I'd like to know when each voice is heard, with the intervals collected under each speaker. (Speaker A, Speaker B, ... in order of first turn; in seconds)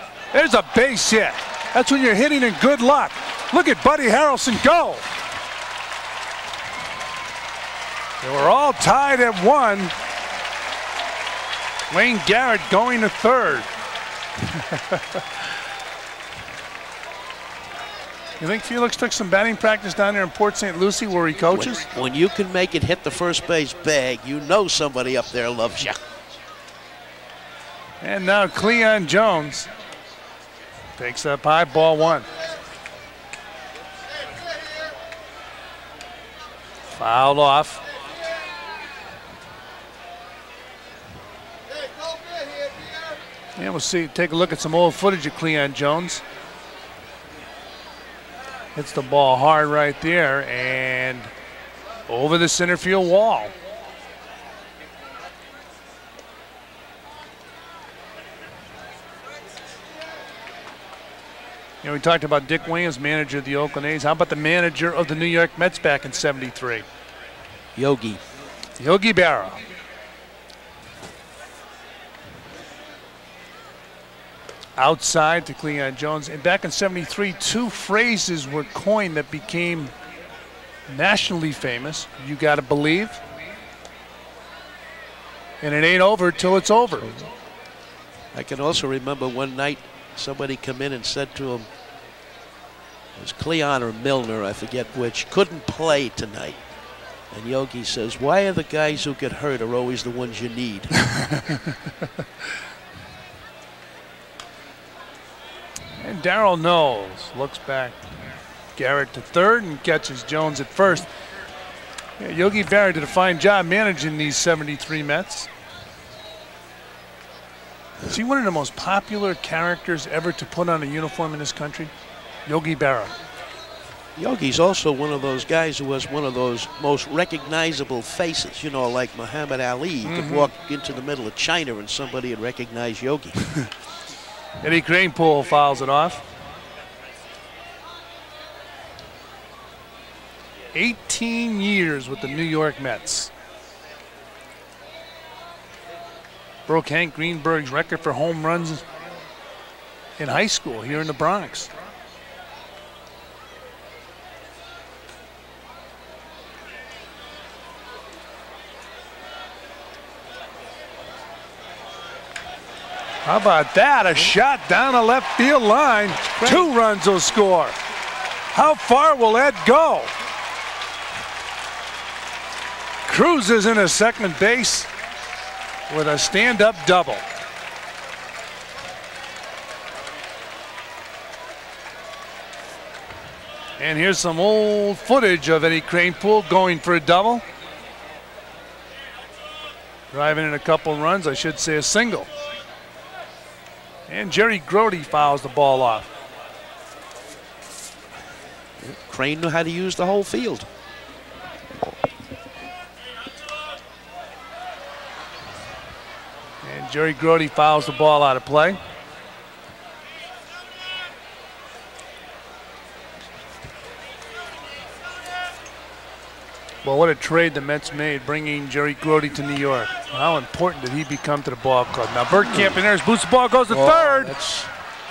Speaker A: 0.3-5.0, 8.2-9.9, 11.9-13.7, 14.6-15.2, 18.4-21.9, 28.0-29.7, 31.0-32.3, 36.9-37.8, 43.6-46.2, 48.8-51.3, 52.1-53.5, 61.8-66.9, 68.8-69.6, 74.8-79.9, 80.9-83.2, 85.6-87.2, 106.0-108.0, 108.8-111.1, 112.2-115.5, 118.1-121.9, 122.5-123.1, 130.1-130.5, 134.6-136.2, 140.7-143.3, 146.7-148.8, 150.2-151.7, 163.2-167.8, 168.5-170.1, 173.1-174.9, 175.9-177.2, 183.8-187.4, 190.1-192.3, 194.1-196.1, 206.6-208.8, 216.8-224.3
Speaker B: 21.5-26.0, 67.8-68.2, 88.3-91.7, 93.2-96.6, 97.3-100.9, 124.2-133.4, 166.3-166.7, 198.8-200.7, 222.4-222.8, 223.7-224.7